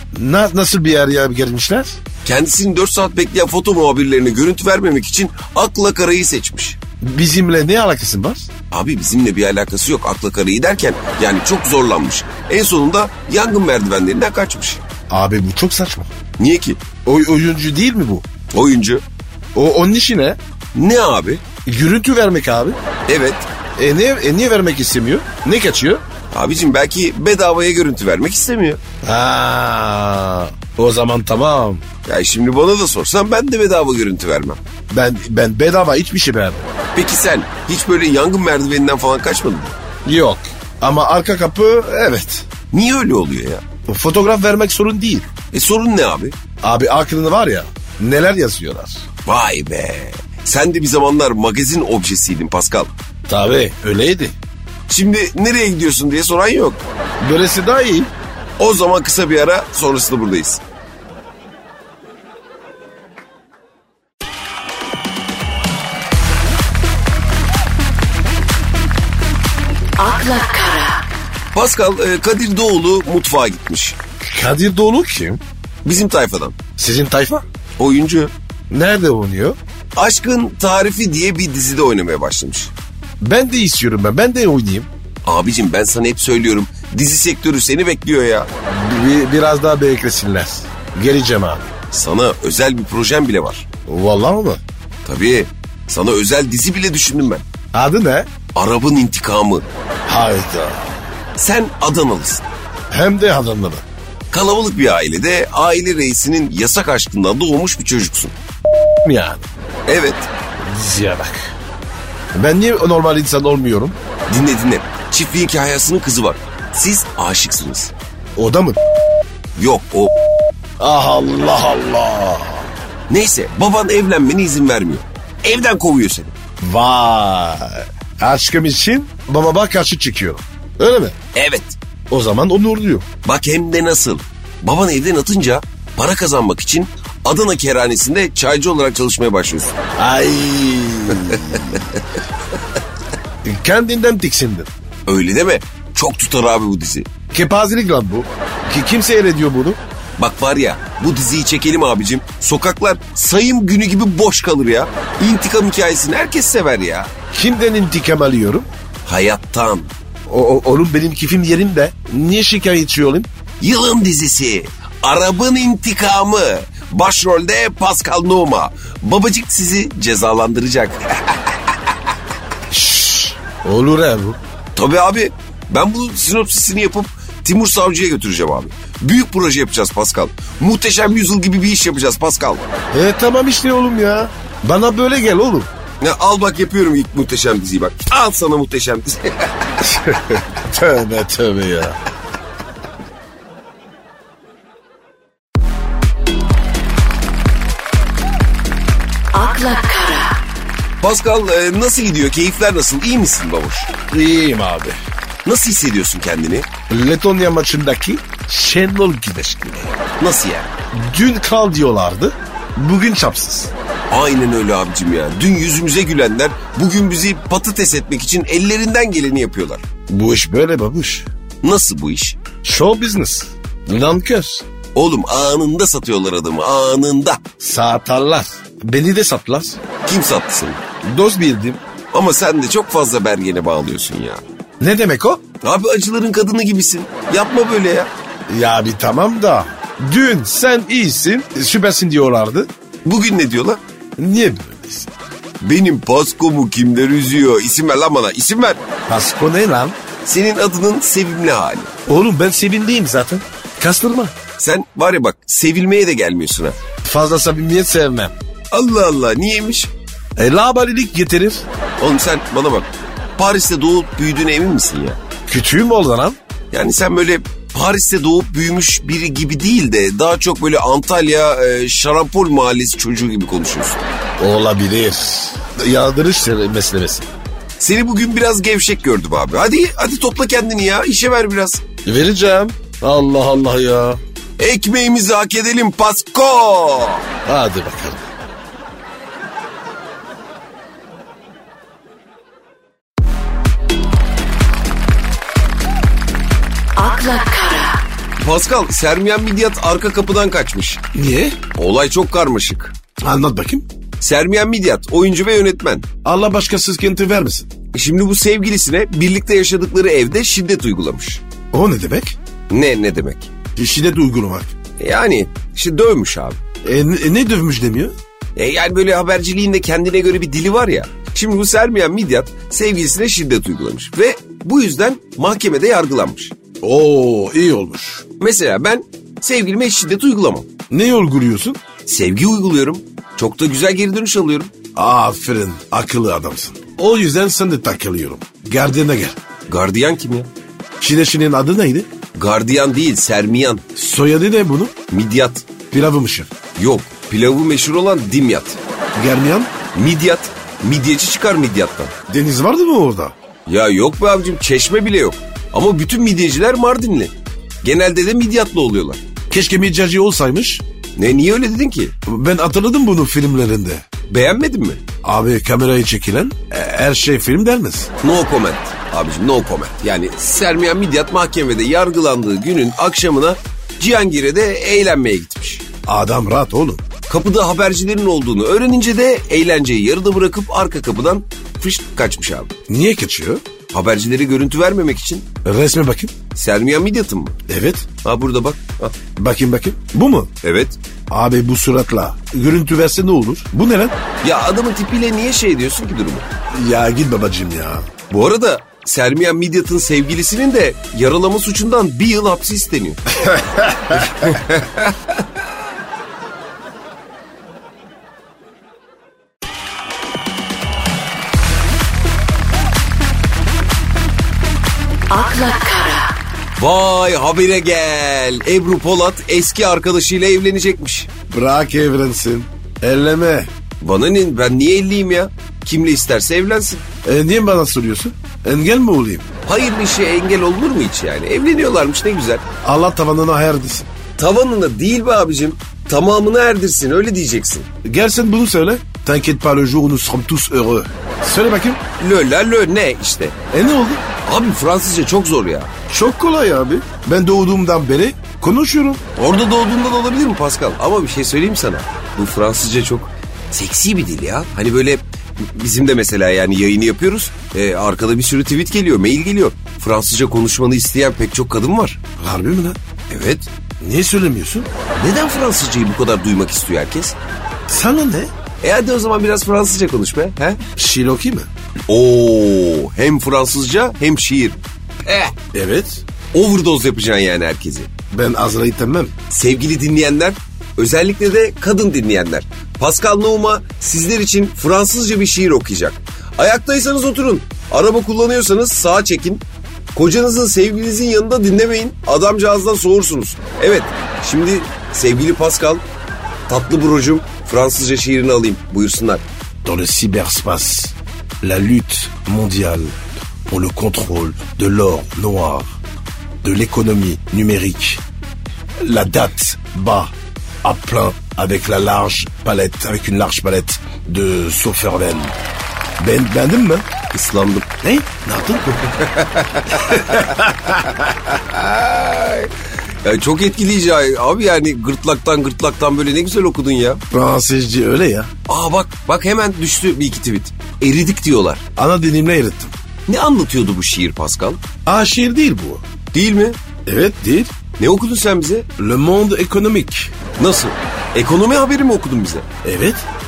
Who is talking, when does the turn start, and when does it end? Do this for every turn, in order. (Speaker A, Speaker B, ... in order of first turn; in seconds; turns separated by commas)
Speaker A: 0.1-2.0, Speaker B: 2.2-6.8, Speaker A: 7.0-8.5, Speaker B: 8.7-14.8, Speaker A: 15.1-16.1, Speaker B: 16.4-16.8, Speaker A: 17.0-18.2, Speaker B: 18.5-19.0, Speaker A: 19.5-20.4, Speaker B: 20.7-21.4, Speaker A: 21.6-22.8, Speaker B: 23.1-23.5, Speaker A: 23.8-26.0, Speaker B: 26.3-28.8, Speaker A: 29.0-31.8, Speaker B: 32.0-34.6, Speaker A: 34.9-36.7, Speaker B: 36.9-39.7, Speaker A: 40.0-42.5, Speaker B: 42.7-43.6, Speaker A: 43.9-45.3, Speaker B: 45.5-46.4, Speaker A: 46.6-49.0, Speaker B: 49.2-52.9, Speaker A: 53.3-54.3, Speaker B: 54.9-56.8, Speaker A: 57.2-58.1, Speaker B: 58.6-60.6, Speaker C: 70.0-71.0, Speaker B: 71.5-74.0, Speaker A: 74.2-75.4, Speaker B: 75.8-76.5, Speaker A: 76.8-77.4, Speaker B: 77.8-78.3, Speaker A: 78.7-79.6, Speaker B: 80.0-82.7, Speaker A: 83.2-84.9, Speaker B: 85.2-88.5, Speaker A: 88.7-91.7, Speaker B: 91.9-93.6, Speaker A: 93.9-94.6, Speaker B: 95.0-97.4, Speaker A: 97.7-98.3, Speaker B: 98.5-99.7, Speaker A: 100.0-100.9, Speaker B: 101.4-102.5, Speaker A: 102.9-103.8, Speaker B: 104.3-108.3, Speaker A: 109.0-109.5, Speaker B: 109.9-110.3, Speaker A: 110.6-111.5, Speaker A: 112.3-114.0, Speaker B: 114.3-117.9, Speaker A: 118.3-118.8, Speaker B: 119.5-120.1, Speaker A: 120.8-122.7, Speaker B: 123.1-126.3, Speaker A: 126.6-131.1, Speaker B: 131.3-131.8, Speaker A: 132.1-133.0, Speaker B: 133.2-139.8, Speaker A: 140.0-141.8, Speaker B: 141.3-141.8, Speaker A: 143.4-144.7, Speaker B: 145.1-147.1, Speaker A: 147.3-149.8, Speaker B: 150.2-157.1, Speaker A: 157.3-158.7, Speaker B: 159.0-159.9, Speaker A: 160.3-163.3, Speaker B: 163.6-171.7, Speaker A: 172.7-174.4, Speaker B: 174.7-182.6, Speaker A: 182.9-185.7, Speaker B: 186.0-190.0, Speaker A: 189.9-192.0, Speaker C: 199.3-200.4, Speaker B: 201.0-203.9, Speaker A: 204.1-205.0, Speaker B: 205.4-206.7, Speaker A: 206.9-209.9, Speaker B: 210.2-210.7, Speaker A: 210.9-213.7, Speaker B: 214.1-219.8, Speaker A: 220.1-221.2, Speaker B: 221.6-222.4, Speaker A: 222.6-224.6, Speaker B: 224.9-227.4, Speaker A: 227.6-229.8, Speaker B: 230.0-230.8, Speaker A: 231.0-231.8, Speaker B: 232.1-234.4, Speaker A: 234.8-235.4, Speaker B: 235.6-238.1, Speaker A: 238.5-242.7, Speaker B: 243.0-243.8, Speaker A: 244.2-245.1, Speaker B: 245.6-248.8, Speaker A: 249.1-250.0, Speaker B: 250.2-251.9, Speaker A: 252.1-254.3, Speaker B: 254.6-256.8, Speaker A: 257.0-258.3, Speaker B: 258.7-259.9, Speaker A: 260.4-261.6, Speaker B: 262.0-265.2, Speaker A: 265.5-266.4, Speaker B: 266.7-274.0, Speaker A: 274.4-277.3, Speaker B: 277.8-281.8, Speaker A: 282.0-284.2, Speaker B: 284.6-287.2, Speaker A: 287.4-288.2, Speaker C: 296.9-298.0, Speaker B: 298.4-301.0, Speaker A: 301.1-301.6, Speaker B: 301.7-302.9, Speaker A: 303.2-303.8, Speaker B: 304.2-306.1, Speaker A: 306.2-307.7, Speaker B: 307.9-311.4, Speaker A: 311.7-312.4, Speaker B: 312.7-313.5, Speaker A: 313.8-314.7, Speaker B: 315.0-316.6, Speaker A: 316.8-318.1, Speaker B: 318.6-326.5, Speaker A: 326.8-328.2, Speaker B: 328.4-330.7, Speaker A: 330.9-331.8, Speaker B: 332.0-334.7, Speaker A: 334.9-339.4, Speaker B: 339.7-340.5, Speaker A: 341.0-342.1, Speaker B: 342.3-343.8, Speaker A: 343.9-344.9, Speaker B: 345.1-345.6, Speaker A: 345.9-346.5, Speaker B: 346.8-348.8, Speaker A: 349.1-349.7, Speaker B: 349.9-352.1, Speaker A: 352.3-353.3, Speaker B: 353.7-359.2, Speaker A: 359.5-360.8, Speaker B: 361.2-362.1, Speaker A: 362.3-364.0, Speaker B: 364.3-365.0, Speaker A: 365.2-368.1, Speaker B: 368.2-375.8, Speaker A: 376.1-377.0, Speaker B: 377.3-382.7, Speaker A: 382.9-383.6, Speaker B: 383.9-385.5, Speaker A: 385.6-386.3, Speaker B: 386.5-387.6, Speaker A: 387.7-388.1, Speaker B: 388.2-389.2, Speaker A: 389.4-390.5, Speaker B: 390.6-391.0, Speaker A: 391.3-394.2, Speaker B: 394.4-396.5, Speaker A: 396.7-398.1, Speaker B: 398.3-403.2, Speaker A: 403.4-404.4, Speaker B: 404.1-405.4, Speaker C: 415.3-416.3, Speaker B: 416.8-421.3, Speaker A: 421.5-423.7, Speaker B: 424.0-427.0, Speaker A: 427.2-429.5, Speaker B: 429.6-432.6, Speaker A: 432.8-434.1, Speaker B: 434.4-437.9, Speaker A: 438.0-442.0, Speaker B: 442.2-443.6, Speaker A: 443.7-444.2, Speaker B: 444.4-445.9, Speaker A: 446.1-449.2, Speaker B: 449.4-462.2, Speaker A: 462.4-463.0, Speaker B: 463.3-463.7, Speaker A: 464.0-464.9, Speaker B: 465.1-467.3, Speaker A: 467.9-468.5, Speaker B: 468.8-470.8, Speaker A: 471.0-471.7, Speaker B: 472.1-475.6, Speaker A: 475.7-476.2, Speaker B: 476.5-478.1, Speaker A: 478.3-479.3, Speaker B: 479.5-496.0, Speaker B: 496.7-499.4, Speaker A: 499.8-505.9, Speaker A: 506.6-508.2, Speaker A: 509.0-510.3, Speaker A: 510.8-515.5, Speaker A: 516.2-517.0, Speaker B: 517.3-517.9, Speaker A: 518.0-519.2, Speaker B: 519.2-520.4, Speaker A: 519.9-521.2, Speaker B: 521.2-522.7, Speaker B: 523.2-527.2, Speaker A: 527.3-528.5, Speaker B: 528.7-531.8, Speaker A: 532.0-532.9, Speaker B: 533.3-534.8, Speaker A: 535.0-536.0, Speaker B: 536.3-536.8, Speaker A: 537.0-537.7, Speaker B: 538.0-538.9, Speaker A: 539.0-540.4, Speaker B: 540.6-542.6, Speaker A: 542.8-543.2